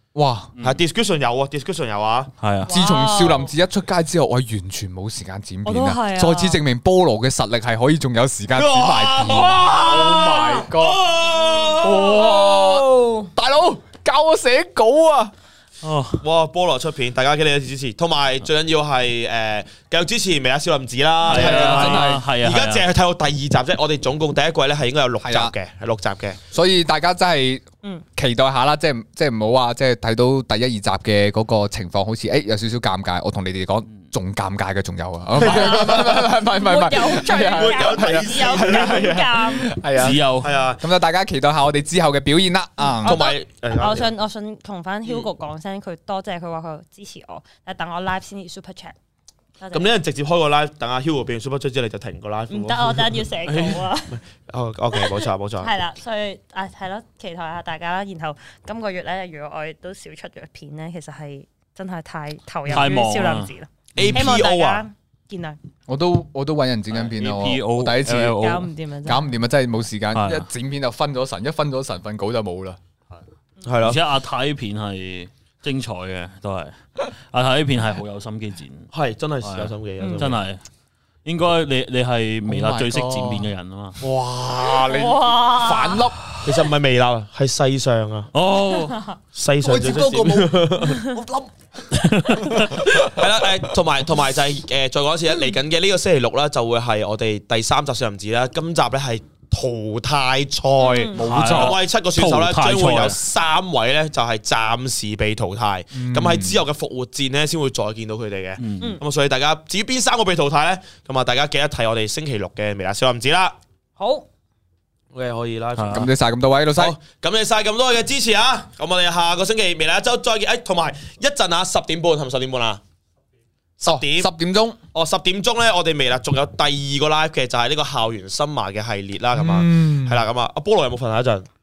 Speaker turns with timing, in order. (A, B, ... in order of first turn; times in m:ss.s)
0:00.1-0:00.5 A
0:00.6-0:02.3 B
0:02.4-0:02.7 C
0:02.6-0:03.5 D
0:02.7-0:11.0 A
0:05.6-0:06.6 D
0:08.5-0:12.2 B
0:09.3-0:10.7 D
0:11.3-0:13.3 D
0:11.8-0:15.3 A
0:15.8-0:16.2 C
0:16.2-0:26.4 B
0:21.2-0:22.2 A
0:21.2-0:22.9 C
0:25.2-0:25.5 A
0:26.5-0:27.6 A
0:28.2-0:43.2 A
0:35.4-0:36.2 B
0:35.4-0:39.7 D
0:37.2-0:39.2 B
0:40.0-0:40.6 C
0:40.4-0:40.8 B
0:42.8-0:48.9 D
0:43.0-0:44.1 B
0:49.6-0:49.9 D
0:49.7-0:55.7 B
0:52.5-0:54.2 D
0:54.9-1:05.6 D
1:02.7-1:04.2 C
1:04.0-1:04.8 B
1:05.9-1:08.4 A
1:06.9-1:08.7 C
1:08.4-1:09.3 D
1:09.0-1:12.8 A
1:10.1-1:10.5 C
1:13.6-1:14.0 B
1:13.8-1:18.9 C
1:18.9-1:20.4 B
1:19.4-1:20.6 C
1:20.0-1:20.3 D
1:21.2-1:24.0 C
1:22.5-1:23.5 A
1:24.0-1:26.4 A
1:24.8-1:25.1 B
1:24.8-1:26.0 D
1:26.4-1:28.3 B
1:28.3-1:29.0 C
1:28.8-1:29.2 D
1:29.3-1:31.0 B
1:29.6-1:33.7 A
1:32.0-1:33.0 C
1:32.8-1:53.6 B
1:40.8-1:41.2 D
1:41.1-1:43.2 C
1:41.2-1:41.8 A
1:45.9-1:46.6 A
1:48.6-1:49.0 C
1:54.0-1:54.2 D
1:55.1-1:56.1 B
1:55.7-1:56.1 C
1:55.9-1:57.0 A
1:56.8-2:02.8 B
2:03.8-2:04.3 B
2:03.8-2:04.8 A
2:04.9-2:11.5 B
2:09.3-2:10.2 A